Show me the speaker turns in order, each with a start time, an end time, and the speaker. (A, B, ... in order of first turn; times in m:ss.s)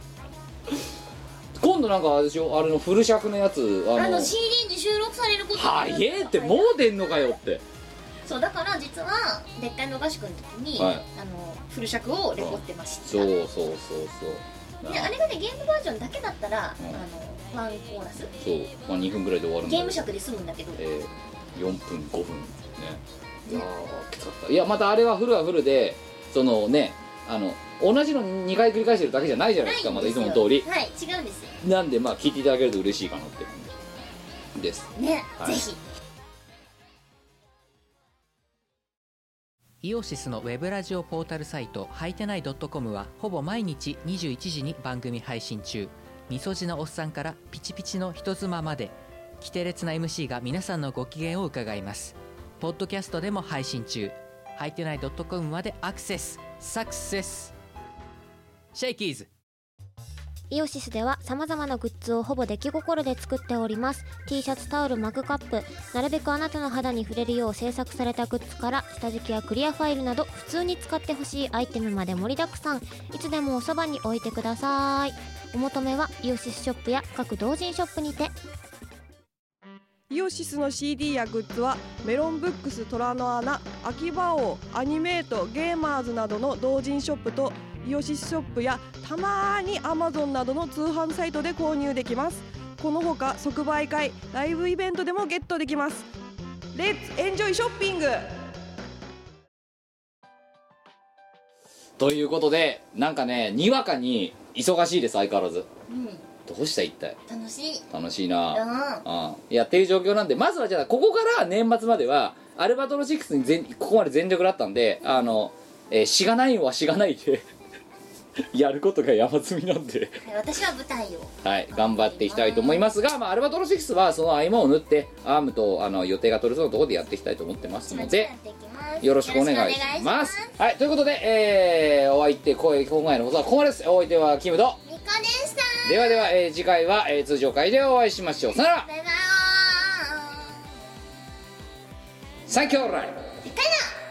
0:01.6-0:04.3 A
0:03.9-0:07.3 B
0:05.5-0:07.6 A
0:08.2-0:13.3 B
0:10.8-0:11.0 A
0:12.4-0:15.1 A
0:14.8-0:18.3 B
0:18.4-0:20.0 A
0:19.6-0:20.8 B
0:20.8-0:30.7 A
0:29.6-0:31.6 B
0:31.6-0:33.9 A
0:34.5-0:35.6 A
0:35.0-0:35.8 B
0:39.8-0:57.5 C
0:58.7-0:59.3 C
1:00.5-1:18.3 D
1:20.1-1:36.1 E
1:36.7-1:38.3 E
1:42.0-1:45.7 A
1:45.9-1:46.2 B
1:46.4-1:47.2 A
1:47.3-1:47.8 B
1:47.9-1:57.5 A
1:48.5-1:49.0 B
1:55.0-1:55.3 B
1:58.5-2:00.2 A
2:00.2-2:02.8 B
2:01.4-2:08.3 A
2:07.8-2:10.5 B
2:09.0-2:14.8 A
2:14.8-2:16.3 B
2:15.8-2:18.9 A
2:18.6-2:20.7 B
2:22.5-2:23.2 A
2:23.4-2:24.0 B